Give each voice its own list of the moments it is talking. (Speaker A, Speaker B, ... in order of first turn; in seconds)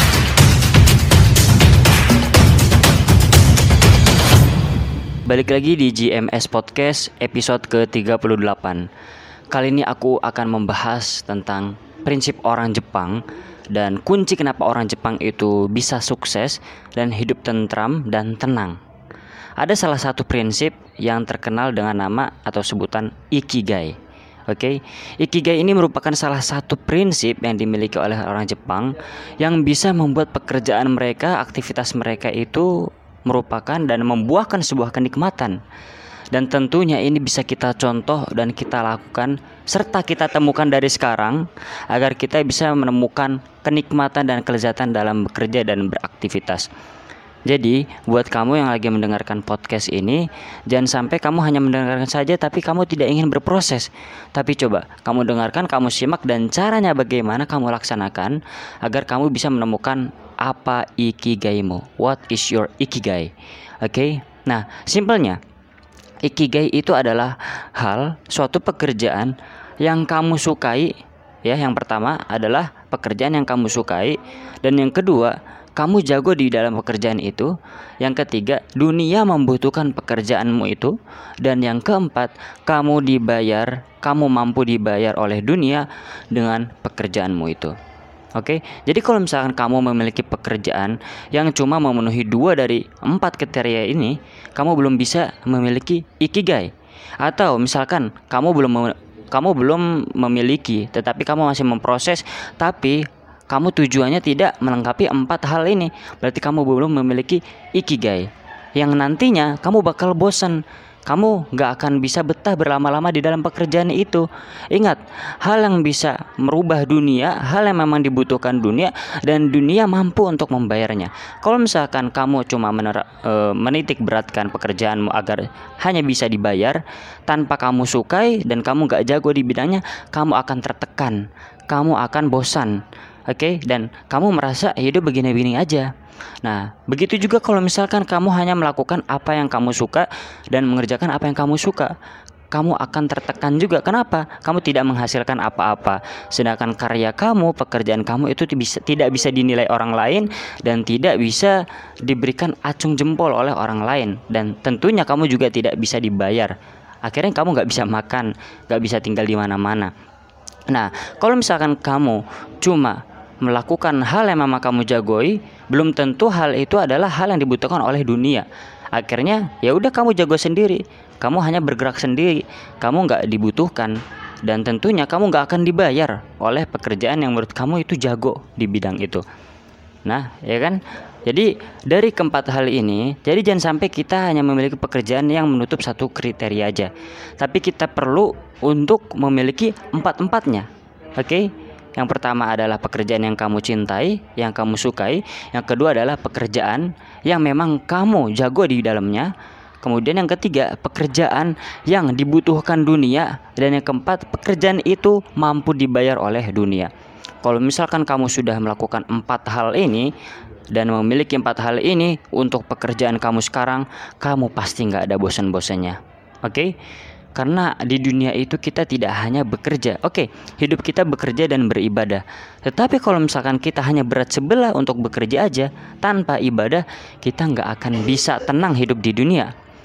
Speaker A: 5.3-8.9, 9.5-18.8, 19.6-24.0, 24.5-35.6, 36.3-46.7, 47.5-63.3, 63.8-65.4, 66.2-70.9, 71.5-87.8, 88.4-135.9, 136.4-141.9, 142.5-159.9, 160.7-179.2, 180.1-206.9, 207.4-210.1, 210.7-216.7, 217.4-229.5